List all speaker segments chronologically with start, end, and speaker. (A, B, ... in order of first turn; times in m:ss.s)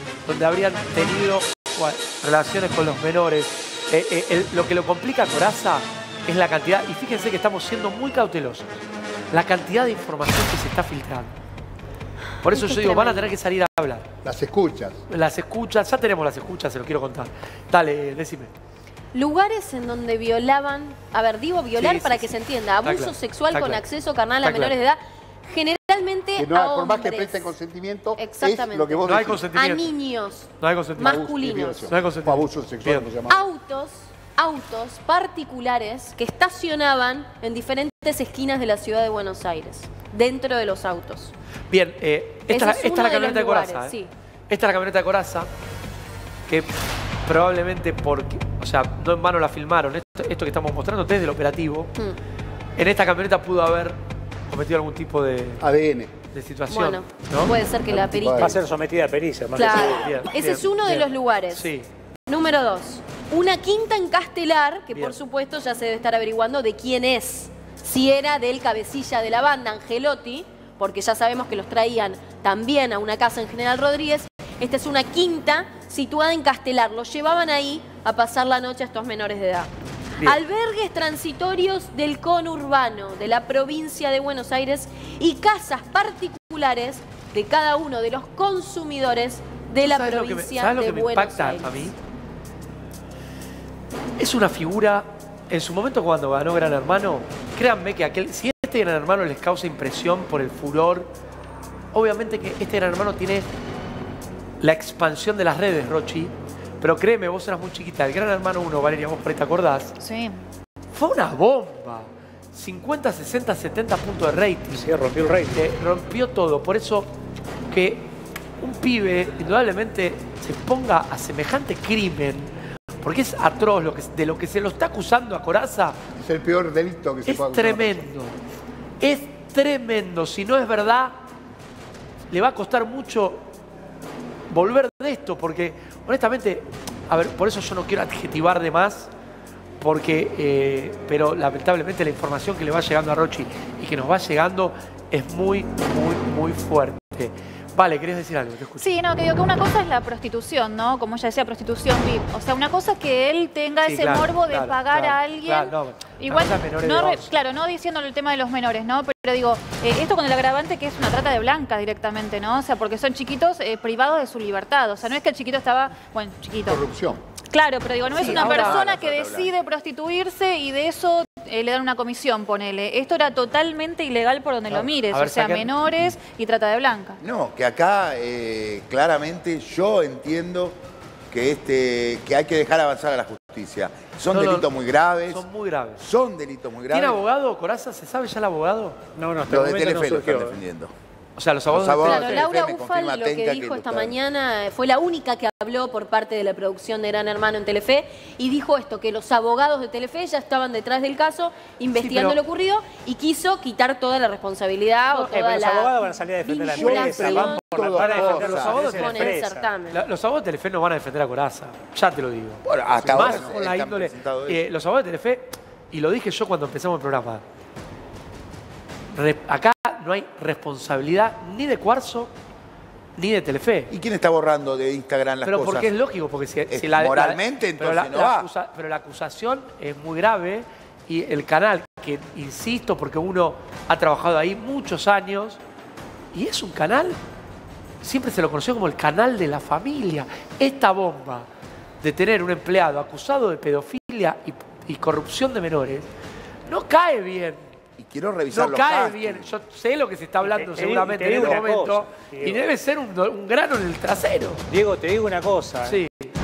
0:00.2-0:08.7 A
0:09.3-0:11.4 A
0:12.4-0:14.1 A
0:12.5-0:13.3 B
0:14.2-0:15.0 C
0:15.1-0:18.5 A
0:19.1-0:27.5 B
0:21.8-0:23.8 A
0:24.4-0:24.7 A
0:26.4-0:29.4 C
0:28.2-0:31.9 B
0:29.0-0:29.9 A
0:30.6-0:31.2 A
0:31.0-0:33.5 C
0:31.9-0:33.1 A
0:33.3-0:41.3 B
0:41.7-0:44.0 A
0:42.5-0:44.1 B
0:44.5-0:45.5 A
0:47.2-0:51.9 A
0:52.8-0:55.6 A
0:55.6-0:56.1 C
0:56.3-0:57.5 A
0:56.7-0:58.6 B
0:57.9-0:58.6 C
0:58.3-1:00.1 D
0:59.5-1:01.7 B
0:59.7-1:01.9 A
1:02.3-1:31.9 B
1:04.9-1:05.2 A
1:29.8-1:31.9 A
1:34.2-1:41.1 A
1:41.9-1:43.5 A
1:44.6-1:50.0 A
1:50.0-1:50.4 E
1:50.9-1:54.9 A
1:54.7-1:55.7 D
1:55.5-1:57.1 A
1:57.7-2:06.0 A
2:06.2-2:08.0 C
2:07.2-2:08.4 A
2:09.0-2:11.1 A
2:12.3-2:13.5 A
2:14.5-2:19.1 A
2:19.8-2:28.9 A
2:28.8-2:46.8 E
2:33.8-2:37.3 A
2:46.7-2:47.2 C
2:47.5-2:57.2 E
2:48.1-2:48.8 A
2:48.1-2:49.5 F
2:54.7-2:55.8 A
2:57.2-3:00.8 F
3:01.3-3:05.4 F
3:04.3-3:04.7 A
3:05.2-3:06.0 A
3:06.0-3:07.2 F
3:06.9-3:09.0 A
3:09.2-3:10.6 D
3:09.5-3:10.9 F
3:11.4-3:12.5 A
3:11.7-3:14.2 F
3:12.0-3:30.0 B
3:21.9-3:22.4 A
3:25.0-3:29.7 D
3:26.7-3:28.8 F
3:28.2-3:29.3 A
3:29.9-3:37.4 A
3:32.6-3:34.6 F
3:33.0-3:33.5 C
3:39.1-3:42.3 A
3:43.2-3:43.9 A
3:43.9-3:45.9 F
3:45.4-3:55.6 A
3:46.7-3:48.5 F
3:56.3-3:57.2 A
3:58.0-4:01.5 A
4:02.0-4:06.1 A
4:06.7-4:07.7 A
4:08.0-4:09.5 F
4:08.5-4:14.6 A
4:10.4-4:12.7 D
4:14.7-4:16.0 D
4:15.8-4:16.3 A